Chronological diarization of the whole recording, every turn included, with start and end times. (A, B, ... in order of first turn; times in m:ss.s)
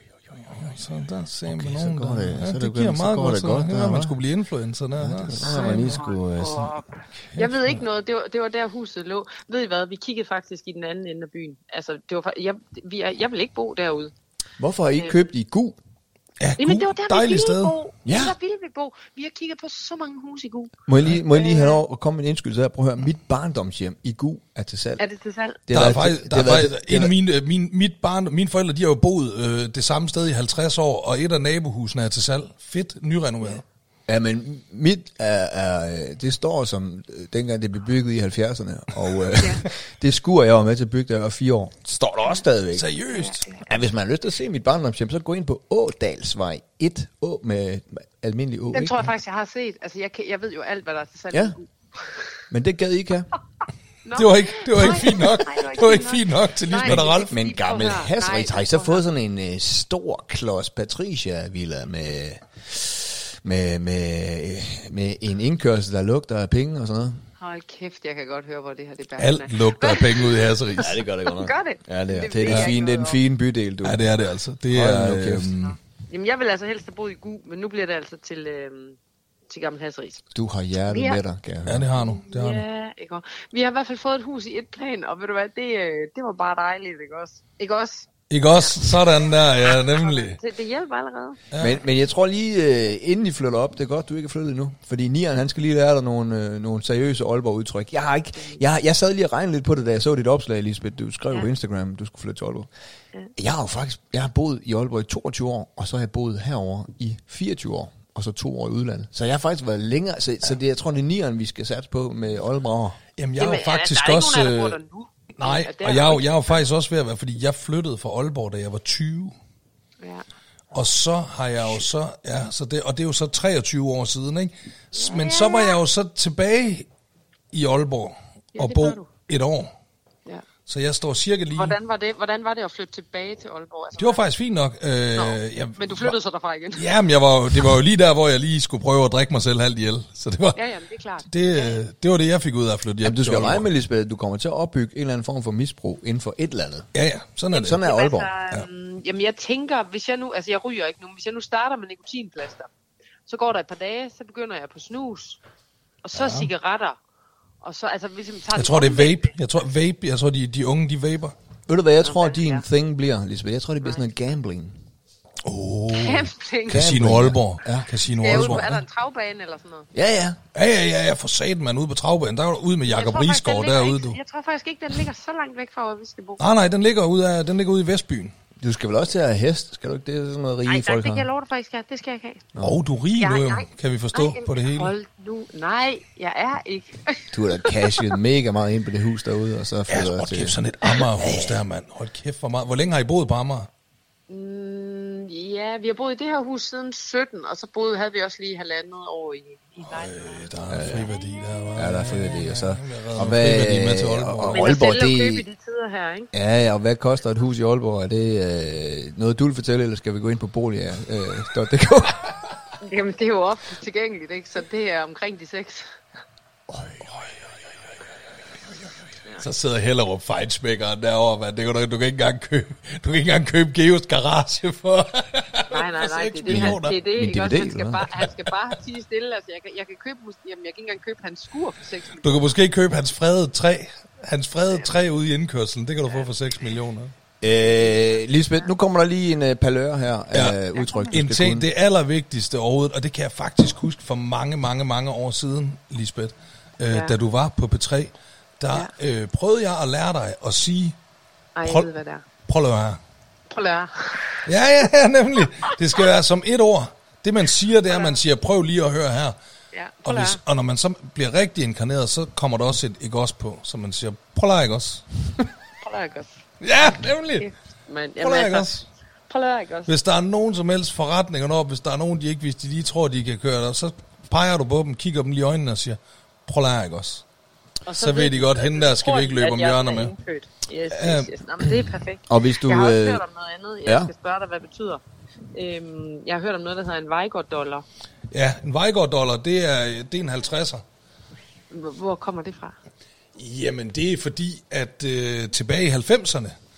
0:00.2-0:00.6 A
0:00.5-0:06.0 B
0:01.5-0:04.2 A
0:05.0-0:06.8 A
0:05.4-0:14.1 C
0:07.3-0:07.6 B
0:14.6-0:15.8 A
0:16.4-0:17.8 B
0:16.6-0:20.7 C
0:18.0-0:18.4 A
0:20.9-0:25.0 A
0:21.3-0:21.8 C
0:25.0-0:25.6 C
0:25.7-0:27.1 A
0:25.7-0:33.6 B
0:34.1-0:42.9 A
0:39.4-0:39.6 C
0:42.8-0:43.5 B
0:43.1-0:43.6 C
0:43.6-0:49.0 A
0:48.7-0:52.4 C
0:51.3-0:51.6 A
0:52.5-0:53.3 A
0:54.0-0:59.0 C
0:54.2-0:57.3 B
0:56.8-1:07.2 A
1:07.4-1:13.2 C
1:09.2-1:11.0 B
1:10.8-1:14.0 A
1:13.8-1:15.8 B
1:14.7-1:15.5 A
1:16.1-1:19.0 C
1:19.5-1:20.2 C
1:20.3-1:21.9 A
1:20.9-1:21.2 C
1:21.7-1:22.6 B
1:22.0-1:29.0 C
1:28.3-1:30.4 B
1:29.5-1:31.4 C
1:31.5-1:31.8 B
1:31.6-1:42.7 A
1:43.4-1:53.0 A
1:53.2-1:54.8 B
1:53.4-1:56.6 C
1:55.4-1:59.3 B
2:00.7-2:06.9 B
2:04.9-2:05.8 C
2:07.5-2:09.7 B
2:08.6-2:09.1 C
2:10.7-2:11.8 B
2:11.6-2:14.2 C
2:14.0-2:16.2 B
2:15.2-2:16.9 C
2:16.8-2:20.6 B
2:20.6-2:21.8 C
2:21.3-2:23.7 B
2:23.0-2:26.9 A
2:26.9-2:27.8 B
2:27.5-2:32.7 C
2:27.5-2:28.3 A
2:33.3-2:35.4 C
2:36.0-2:37.0 C
2:36.2-2:36.5 B
2:37.6-2:39.3 C
2:38.6-2:41.4 B
2:41.7-2:44.8 A
2:42.0-2:42.6 C
2:45.4-2:48.8 B
2:45.9-2:46.9 C
2:46.7-2:48.6 A
2:48.2-2:49.9 C
2:49.9-2:50.4 A
2:50.5-2:54.2 B
2:52.9-2:56.4 C
2:56.4-2:58.3 B
2:58.6-3:01.3 A
3:00.7-3:02.4 C
3:02.6-3:04.9 B
3:03.2-3:08.1 C
3:07.3-3:10.6 A
3:09.9-3:13.7 B
3:11.2-3:11.6 A
3:14.3-3:21.4 C
3:19.9-3:24.7 B
3:20.7-3:21.1 A
3:21.8-3:25.4 A
3:24.5-3:26.3 C
3:26.3-3:32.3 A
3:32.8-3:36.0 C
3:36.7-3:37.0 A
3:39.4-3:47.0 B
3:45.7-3:52.5 C
3:46.5-3:48.1 A
3:52.2-3:57.1 B
3:57.4-4:01.7 A
4:00.3-4:00.6 B
4:00.8-4:01.1 C
4:01.1-4:11.0 B
4:11.6-4:12.2 C
4:11.6-4:11.9 B
4:12.5-4:13.0 B
4:13.5-4:14.5 C
4:14.5-4:19.4 B
4:17.9-4:18.2 C
4:19.7-4:20.4 C
4:20.0-4:25.1 B
4:25.8-4:26.4 C
4:26.6-4:27.5 B
4:27.4-4:29.9 C
4:28.2-4:28.8 B
4:29.9-4:37.2 B
4:37.9-4:45.0 C
4:38.0-4:40.1 B
4:40.9-4:41.3 B
4:42.3-4:43.2 A
4:43.8-4:44.1 A
4:45.5-4:47.8 C
4:48.3-4:50.8 B
4:51.7-4:52.8 C
4:53.4-4:56.6 B